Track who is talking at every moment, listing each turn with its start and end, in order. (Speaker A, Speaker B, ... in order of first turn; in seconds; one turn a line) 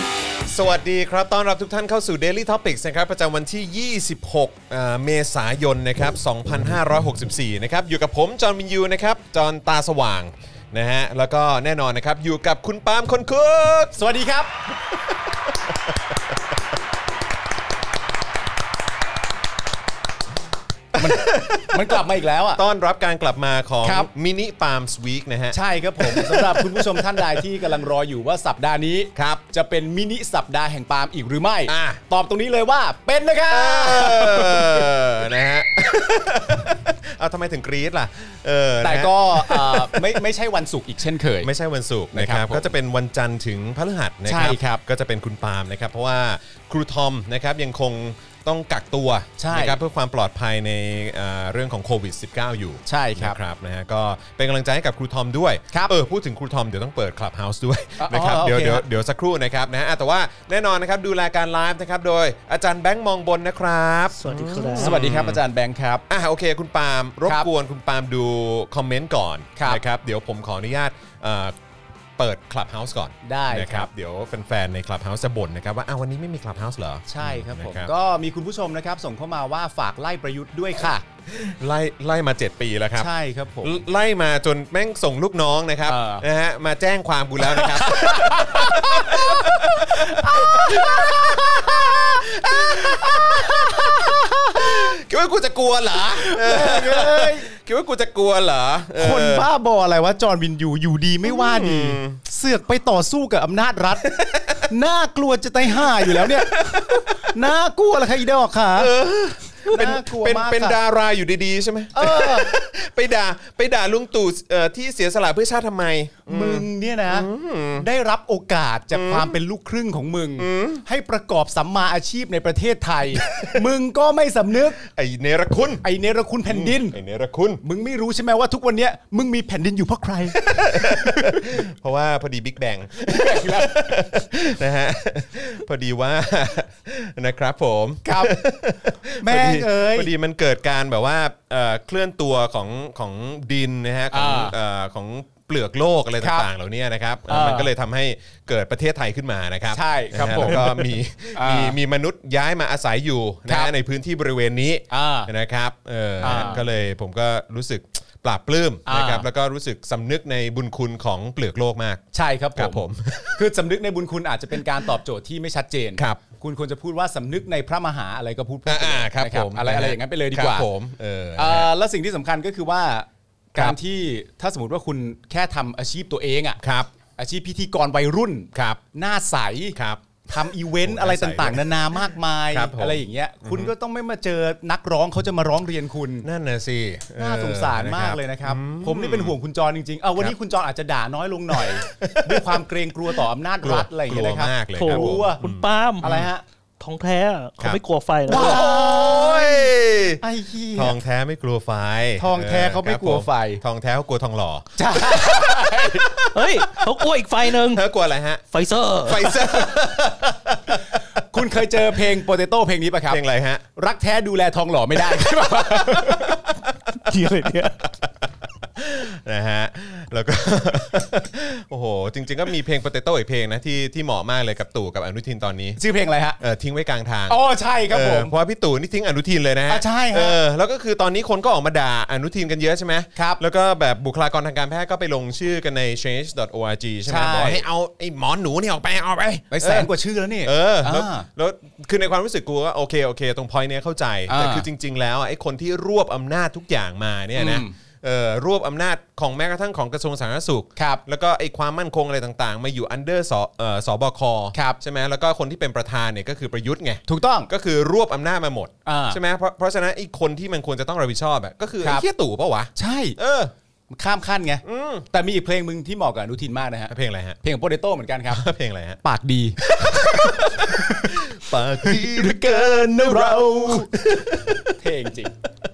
Speaker A: 0.5-14.0
Speaker B: 13.9-14.6
Speaker A: 15.1-15.9
Speaker A: 20.9-22.0
Speaker B: 21.0-22.6
Speaker A: 22.5-27.7
Speaker B: 23.8-24.1
Speaker B: 25.5-34.9
Speaker A: 29.1-29.4
Speaker A: 31.7-32.0
Speaker A: 33.5-40.2
Speaker B: 38.8-41.5
Speaker A: 41.4-65.4
Speaker B: 42.1-42.7
Speaker B: 44.3-44.8
Speaker B: 49.4-49.8
Speaker B: 52.9-53.4
Speaker B: 58.0-58.9
Speaker C: 64.2-65.1
Speaker B: 64.8-66.0
Speaker A: 66.1-71.6
Speaker B: 69.6-69.8
Speaker A: 72.2-77.9
Speaker B: 73.2-73.9
Speaker B: 77.1-81.0
Speaker A: 81.3-83.1
Speaker B: 83.0-83.8
Speaker A: 83.6-99.5
Speaker B: 85.9-86.3
Speaker B: 87.4-94.9
Speaker B: 96.2-97.5
Speaker B: 99.0-108.9
Speaker A: 101.2-102.2
Speaker A: 104.2-104.6
Speaker A: 106.0-107.3
Speaker A: 108.8-117.9
Speaker B: 109.7-110.8
Speaker B: 111.9-112.5
Speaker B: 116.3-124.8
Speaker A: 118.9-119.4
Speaker A: 120.4-120.8
Speaker A: 123.2-123.6
Speaker A: 124.8-125.8
Speaker B: 125.8-127.0
Speaker A: 126.5-127.6
Speaker B: 127.6-131.5
Speaker A: 130.4-162.0
Speaker B: 133.1-134.1
Speaker B: 138.1-140.1
Speaker B: 144.1-144.6
Speaker B: 146.2-146.5
Speaker B: 147.3-147.7
Speaker B: 149.7-151.8
Speaker B: 153.5-153.7
Speaker B: 154.9-155.3
Speaker B: 156.2-156.7
Speaker B: 158.9-159.3
Speaker B: 162.1-162.8
Speaker A: 162.6-163.5
Speaker B: 163.3-170.7
Speaker A: 166.0-166.2
Speaker A: 168.7-171.7
Speaker B: 171.4-186.3
Speaker A: 176.6-176.9
Speaker A: 178.5-178.8
Speaker A: 179.8-180.0
Speaker A: 180.8-181.7
Speaker A: 182.5-183.7
Speaker A: 186.2-189.4
Speaker B: 187.2-195.4
Speaker A: 191.6-192.7
Speaker A: 193.6-196.3
Speaker C: 194.8-196.3
Speaker B: 196.0-196.4
Speaker C: 196.8-198.6
Speaker A: 197.6-200.2
Speaker B: 198.3-201.0
Speaker A: 200.8-208.5
Speaker B: 202.2-203.6
Speaker B: 204.8-206.2
Speaker C: 206.3-207.9
Speaker C: 208.5-209.7
Speaker A: 209.0-211.2
Speaker B: 211.2-213.2
Speaker A: 211.7-212.1
Speaker A: 213.1-213.7
Speaker B: 213.8-216.5
Speaker A: 215.0-217.2
Speaker C: 216.9-217.8
Speaker A: 217.8-225.8
Speaker B: 225.8-226.4
Speaker A: 226.4-239.9
Speaker B: 227.3-228.3
Speaker B: 229.7-230.4
Speaker B: 233.2-233.4
Speaker B: 237.1-237.6
Speaker B: 239.5-241.3
Speaker A: 240.4-263.5
Speaker B: 244.3-244.7
Speaker B: 247.3-247.7
Speaker B: 250.8-251.0
Speaker B: 257.1-257.5
Speaker B: 258.9-259.2
Speaker B: 262.8-263.2
Speaker B: 263.9-268.4
Speaker A: 264.6-265.1
Speaker A: 266.9-267.4
Speaker A: 268.3-269.0
Speaker B: 269.0-274.0
Speaker A: 269.6-274.8
Speaker B: 274.7-275.4